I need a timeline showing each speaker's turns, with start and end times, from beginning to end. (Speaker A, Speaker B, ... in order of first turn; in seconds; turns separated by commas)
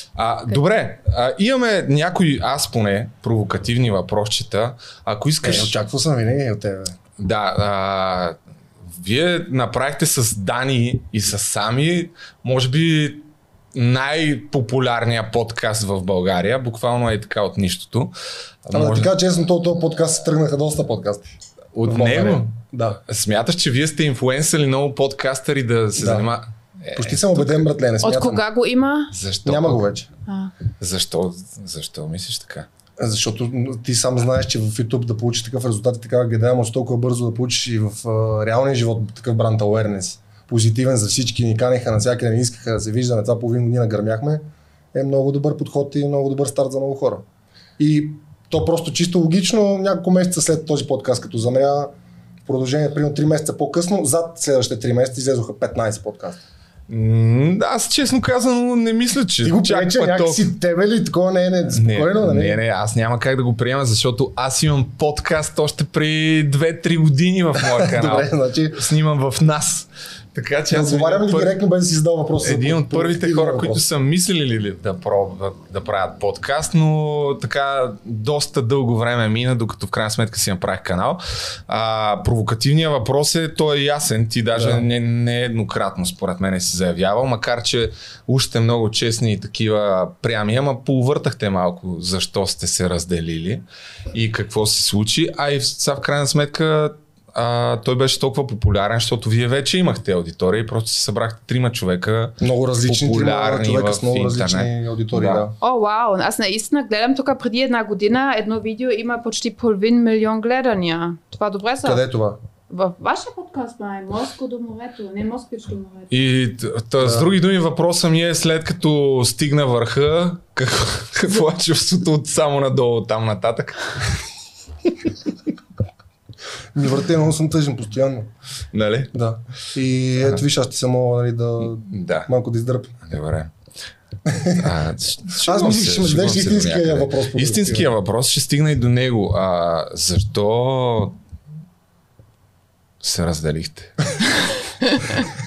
Speaker A: 0.2-5.8, Speaker B: 5.4-7.0, Speaker A: 7.2-8.4, Speaker A: 8.9-18.1, Speaker A: 18.6-19.1, Speaker B: 18.7-21.3, Speaker A: 21.7-22.5, Speaker B: 21.9-23.0, Speaker A: 23.1-27.7, Speaker B: 26.0-26.3, Speaker B: 26.9-28.4, Speaker C: 28.0-29.1, Speaker A: 29.1-29.9, Speaker B: 29.4-30.1, Speaker C: 30.3-30.5, Speaker A: 30.8-32.7, Speaker B: 33.0-47.2, Speaker B: 47.8-51.9, Speaker B: 52.5-56.4, Speaker A: 56.9-60.5, Speaker B: 59.4-62.6, Speaker A: 61.7-71.6, Speaker B: 67.6-68.8, Speaker B: 70.7-73.8, Speaker A: 72.4-105.5, Speaker B: 84.6-84.8, Speaker B: 102.4-105.5, Speaker C: 105.6-112.0, Speaker B: 111.8-112.4, Speaker C: 112.7-116.2, Speaker A: 116.1-124.0, Speaker B: 117.0-117.3, Speaker B: 126.7-128.3, Speaker A: 128.7-129.1, Speaker B: 129.1-132.9, Speaker A: 131.9-132.3, Speaker A: 133.1-133.5, Speaker B: 134.3-134.7, Speaker A: 134.6-141.2, Speaker B: 135.4-137.9, Speaker A: 143.0-144.2